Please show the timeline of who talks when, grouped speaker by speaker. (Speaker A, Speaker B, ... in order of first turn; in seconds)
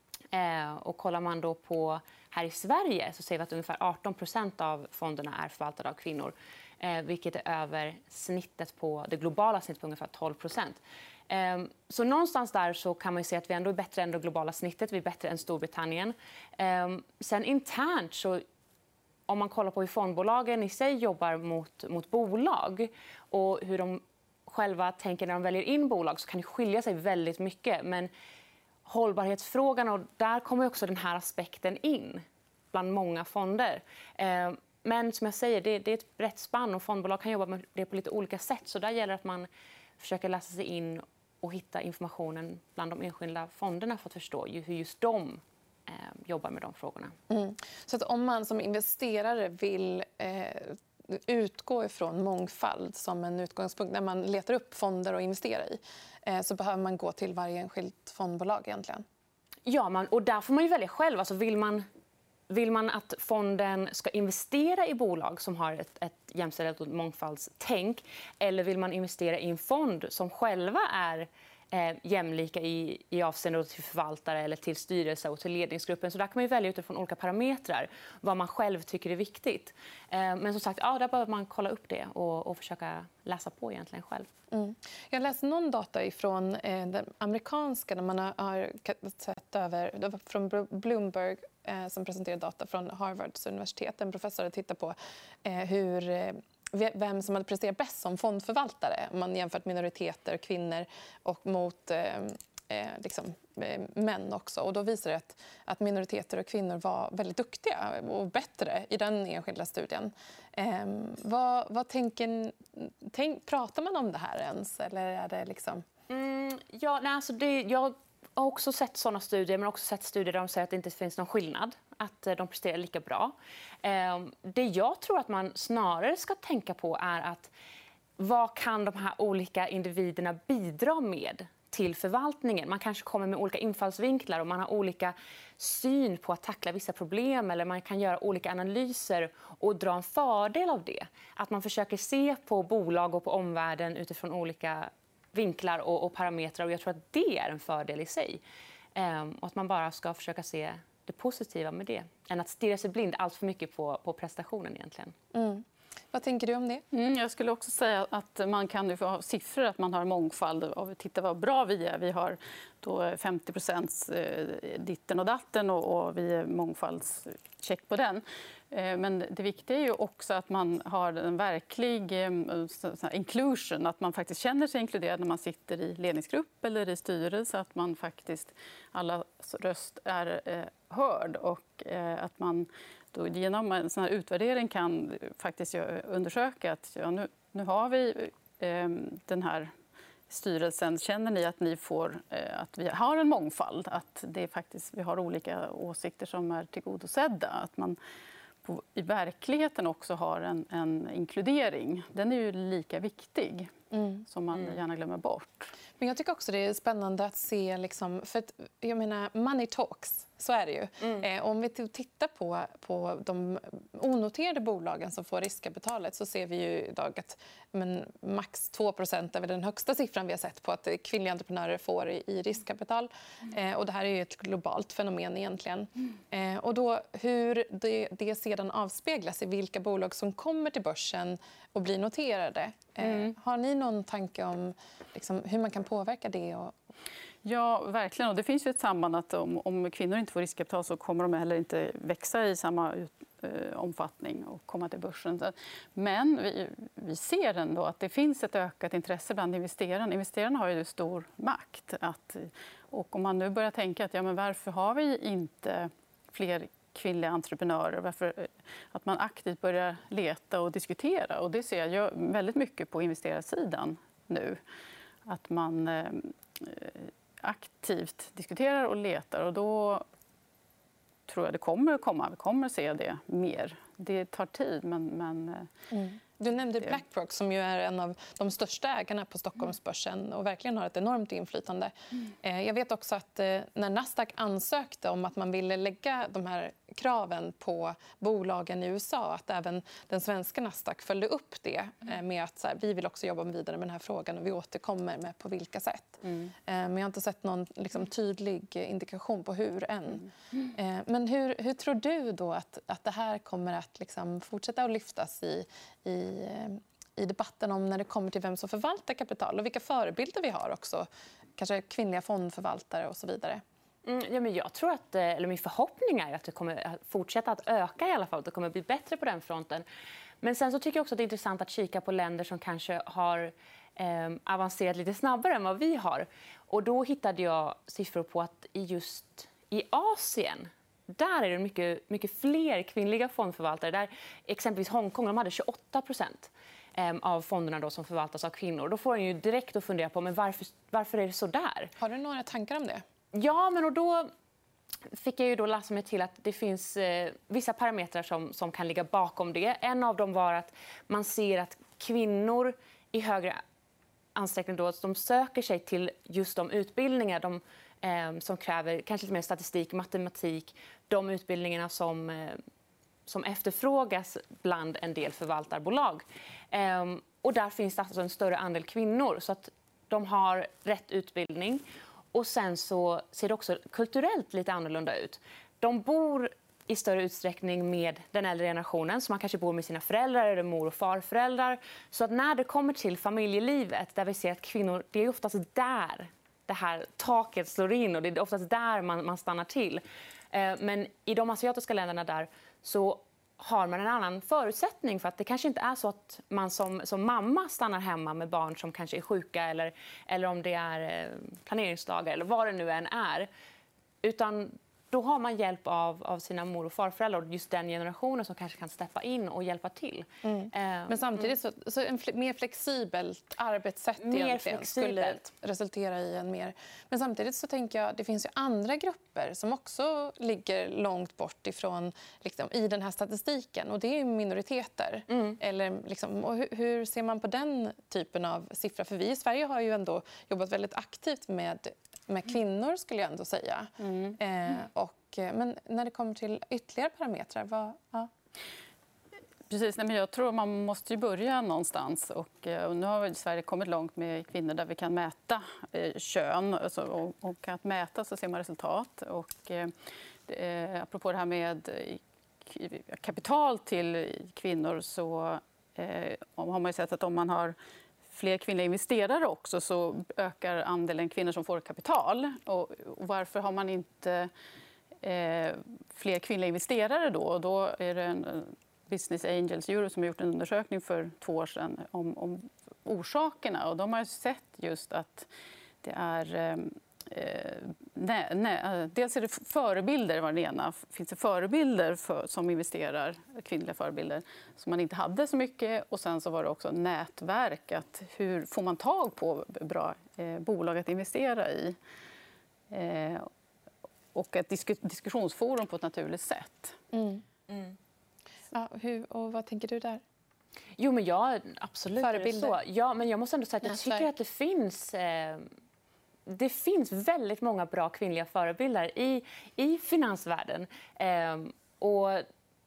Speaker A: 0.3-18.4, 19.3-28.1, 28.9-39.5, 40.0-47.1, 59.6-61.9, 62.5-84.3, 116.1-127.5, 128.2-148.4, 148.9-155.1, 314.0-319.8, 320.4-341.9, 343.3-344.3, 345.1-353.6, 354.4-362.6, 363.3-371.8, 372.3-403.5, 404.2-411.5, 414.2-415.5, 425.3-425.6, 497.7-497.9, 501.0-505.7, 506.5-512.5
Speaker B: 47.3-59.0, 84.5-115.8, 155.3-156.8, 203.9-204.2, 206.0-236.8, 275.9-313.6, 342.0-343.0, 410.4-438.3, 497.1-497.4, 498.7-500.2, 502.2-502.8, 503.8-504.3
Speaker C: 156.9-189.7, 190.3-198.0, 198.6-203.7, 204.2-205.7, 237.4-264.6, 265.2-270.1, 271.3-275.7, 434.0-434.4, 439.7-449.9, 450.5-457.8, 458.3-464.5, 465.2-475.5, 476.0-492.0, 492.9-493.5, 494.3-497.0